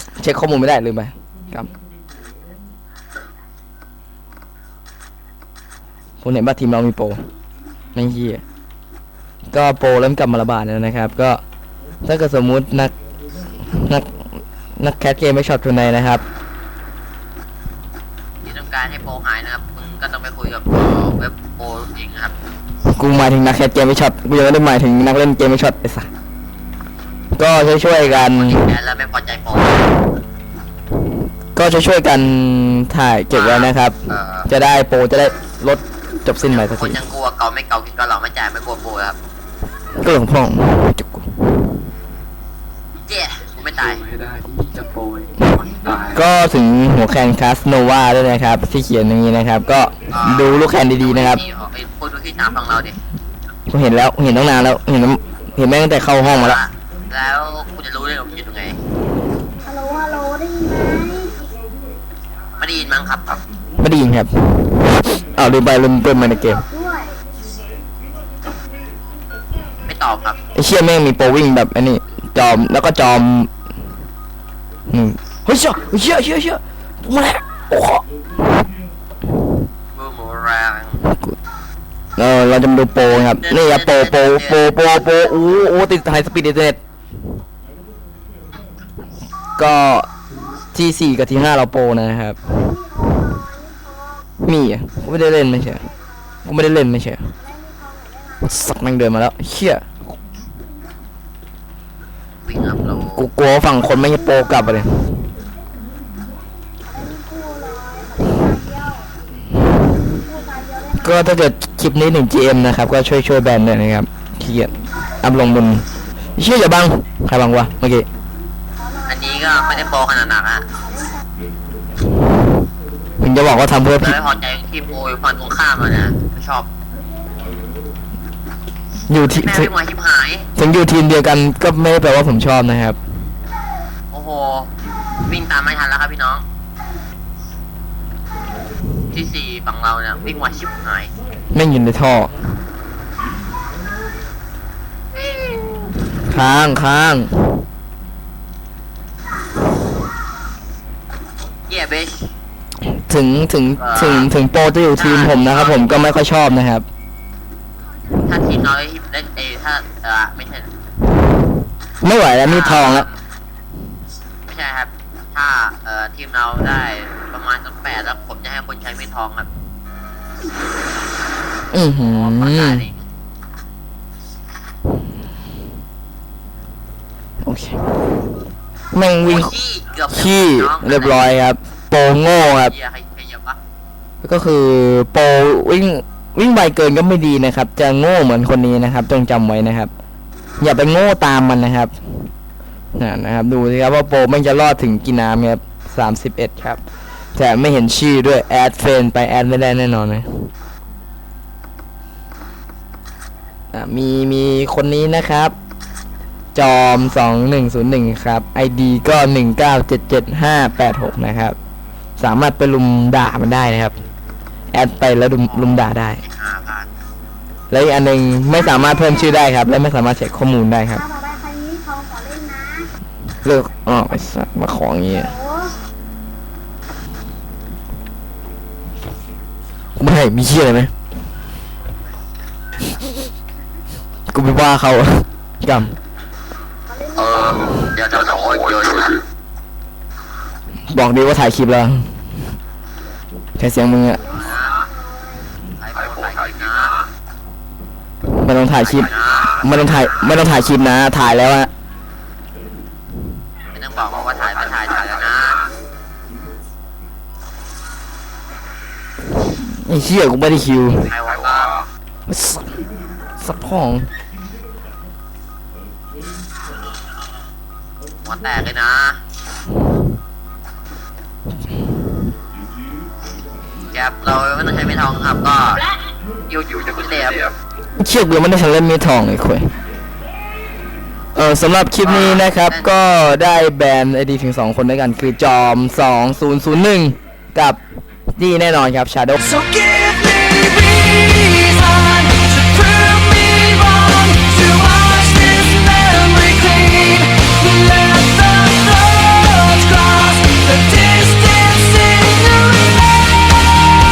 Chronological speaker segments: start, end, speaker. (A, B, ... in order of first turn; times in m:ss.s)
0:00.2-0:01.7 A
0:06.2-0:07.2 A
0:08.0-0:08.4 A
0:09.5-0:11.4 A
0:12.0-0:12.9 A
0:13.6-0:14.2 A
0:14.8-0:16.2 A
0:18.4-0:22.4 B
0:22.9-0:26.1 A
0:27.4-0:28.7 A
0:27.9-0:29.9 B
0:31.6-0:37.0 A
0:33.3-0:34.5 B
0:36.4-0:39.2 B
0:40.0-0:41.4 A
0:43.0-0:44.1 B
0:43.9-0:46.2 C
0:46.1-0:51.4 A
0:50.1-0:53.0 B
0:53.7-0:56.6 A
0:56.2-0:58.8 B
0:59.6-1:01.5 D
1:02.6-1:03.4 B
1:03.8-1:06.6 A
1:06.6-1:07.2 D
1:09.9-1:10.4 B
1:10.5-1:13.5 A
1:14.9-1:18.0 A
1:19.9-1:21.0 B
1:21.0-1:21.4 A
1:22.2-1:26.8 A
1:23.0-1:24.8 B
1:29.6-1:30.1 A
1:30.7-1:32.4 A
1:32.6-1:34.3 D
1:34.4-1:35.9 A
1:36.4-1:37.3 A
1:37.4-1:38.4 D
1:38.4-1:39.9 A
1:42.4-1:43.3 B
1:43.2-1:45.3 A
1:46.8-1:49.1 D
1:49.9-1:51.0 D
1:51.0-1:58.1 A
1:59.1-2:00.6 B
2:00.8-2:01.2 D
2:03.2-2:04.2 A
2:04.0-2:06.7 B
2:09.1-2:09.7 A
2:09.3-2:10.5 B
2:10.6-2:13.0 A
2:14.1-2:14.7 B
2:15.3-2:16.4 B
2:19.1-2:21.1 B
2:21.5-2:22.4 A
2:26.2-2:27.6 A
2:31.7-2:32.3 B
2:32.9-2:36.9 A
2:33.8-2:34.3 B
2:35.0-2:36.1 B
2:38.3-2:40.7 B
2:42.0-2:43.1 A
2:42.4-2:43.2 B
2:44.5-2:49.5 B
2:51.7-2:52.9 A
2:51.9-2:53.0 B
2:57.4-2:57.8 A
2:58.9-2:59.5 A
2:59.2-3:01.3 B
3:00.1-3:02.8 A
3:02.5-3:03.6 B
3:04.2-3:09.9 A
3:10.6-3:12.3 A
3:13.0-3:16.8 A
3:17.4-3:20.5 A
3:23.7-3:25.6 A
3:26.6-3:31.6 A
3:32.2-3:34.0 A
3:34.7-3:36.2 A
3:35.5-3:36.9 B
3:37.7-3:41.0 A
3:41.0-3:42.9 D
3:43.4-3:45.4 A
3:45.3-3:45.8 D
3:50.0-3:50.9 A
3:54.3-3:56.0 A
3:57.1-3:59.2 B
4:00.9-4:02.2 A
4:03.6-4:04.4 A
4:04.2-4:04.8 B
4:05.0-4:05.4 D
4:05.8-4:07.0 B
4:08.4-4:11.7 A
4:08.8-4:09.7 B
4:13.7-4:15.7 B
4:19.4-4:21.1 A
4:21.0-4:21.8 B
4:22.3-4:22.8 A
4:23.4-4:24.1 A
4:28.2-4:29.2 B
4:33.9-4:35.8 B
4:36.5-4:37.5 B
4:38.0-4:39.7 A
4:41.4-4:47.8 A
4:42.0-4:42.9 B
4:48.4-4:49.4 A
4:49.4-5:03.6 E